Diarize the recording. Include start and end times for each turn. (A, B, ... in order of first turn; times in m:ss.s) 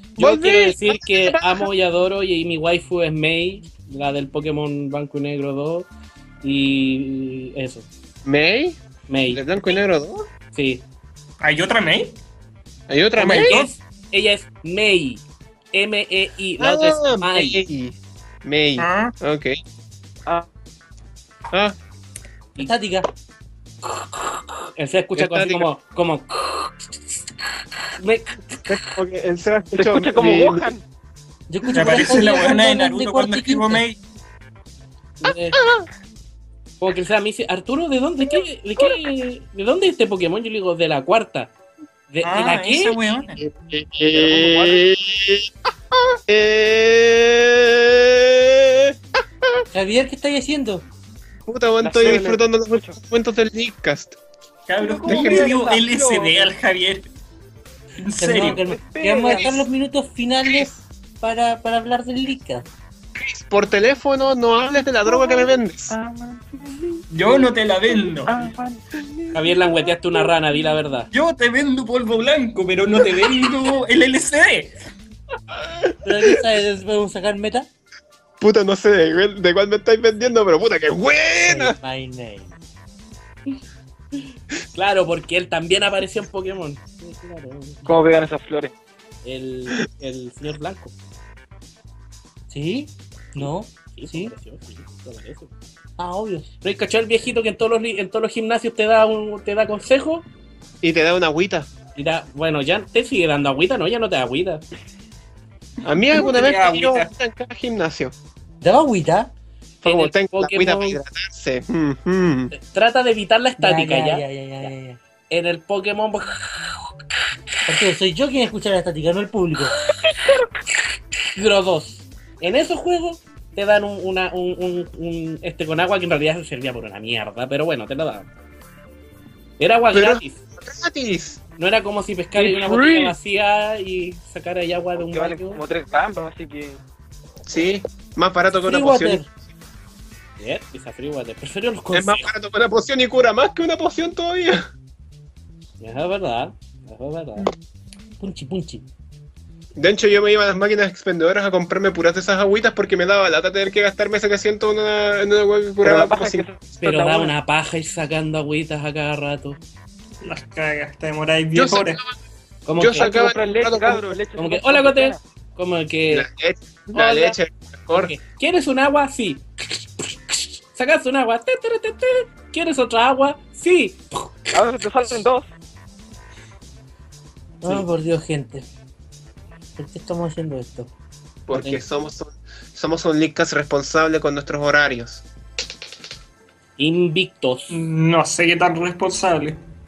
0:00.2-0:05.9 A
0:00.2-0:01.7 B
0:06.4-0:07.9 A
0:08.2-0:08.8 B
0:09.1-0:09.8 A
0:09.3-0:10.3 B
0:10.5-0:10.8 A
0:11.4-0:12.2 C
0:12.9-0:13.6 B
0:13.2-0:17.6 A
0:13.2-0:13.7 C
0:16.6-0:19.6 B
0:18.8-0:19.1 C
0:21.5-0:21.8 B
0:22.6-0:23.1 D
0:23.8-0:27.2 A
0:25.2-0:25.7 B
0:28.0-0:28.8 A
0:28.7-0:30.7 B
0:29.8-0:30.8 E
0:31.5-0:33.8 D
0:31.7-0:34.0 C
0:35.2-0:35.6 A
0:36.8-0:41.5 A
0:42.1-0:43.0 A
0:42.2-0:43.4 C
0:43.4-0:45.5 B
0:44.1-0:44.8 E
0:46.3-0:49.0 B
0:49.7-0:50.9 D
0:51.5-0:54.2 B
0:51.8-0:53.0 E
0:54.7-0:57.1 C
0:54.8-0:56.5 E
0:55.1-0:55.5 B
0:58.0-0:58.6 C
0:58.2-1:02.7 D
0:58.6-0:59.6 E
1:03.2-1:05.9 B
1:05.0-1:10.3 E
1:07.1-1:08.5 C
1:09.3-1:11.1 A
1:11.1-1:14.8 C
1:16.0-1:17.7 D
1:18.4-1:21.8 B
1:21.5-1:22.5 D
1:24.2-1:27.9 A
1:27.9-1:28.7 E
1:29.2-1:30.9 A
1:32.5-1:34.3 D
1:33.4-1:35.5 A
1:36.0-1:36.5 D
1:36.6-1:40.3 A
1:40.8-1:41.7 B
1:42.0-1:44.6 A
1:45.8-1:48.2 B
1:45.9-1:47.1 C
1:48.6-1:49.3 D
1:49.8-1:51.0 A
1:49.8-1:52.5 B
1:52.5-1:54.7 A
1:53.6-1:55.0 D
1:55.3-1:56.7 A
1:57.7-1:59.8 D
2:01.3-2:08.3 A
2:09.6-2:10.4 A
2:09.9-2:11.4 B
2:11.6-2:15.6 A
2:12.4-2:13.1 B
2:15.0-2:16.8 E
2:17.5-2:19.3 B
2:18.6-2:19.3 D
2:20.4-2:22.3 A
2:21.9-2:24.7 B
2:25.8-2:27.5 A
2:28.2-2:28.8 D
2:29.8-2:36.5 B
2:35.8-2:37.3 E
2:36.8-2:39.6 A
2:40.2-2:42.0 C
2:41.5-2:42.2 B
2:42.7-2:43.1 A
2:42.8-2:44.2 B
2:43.0-2:45.2 E
2:44.4-2:46.3 A
2:46.1-2:48.1 B
2:46.9-2:47.4 A
2:47.9-2:55.2 A
2:54.5-2:55.5 E
2:57.6-2:58.7 D
2:59.8-3:00.9 D
3:01.5-3:05.2 B
3:01.5-3:01.8 A
3:06.8-3:07.8 A
3:07.7-3:09.6 C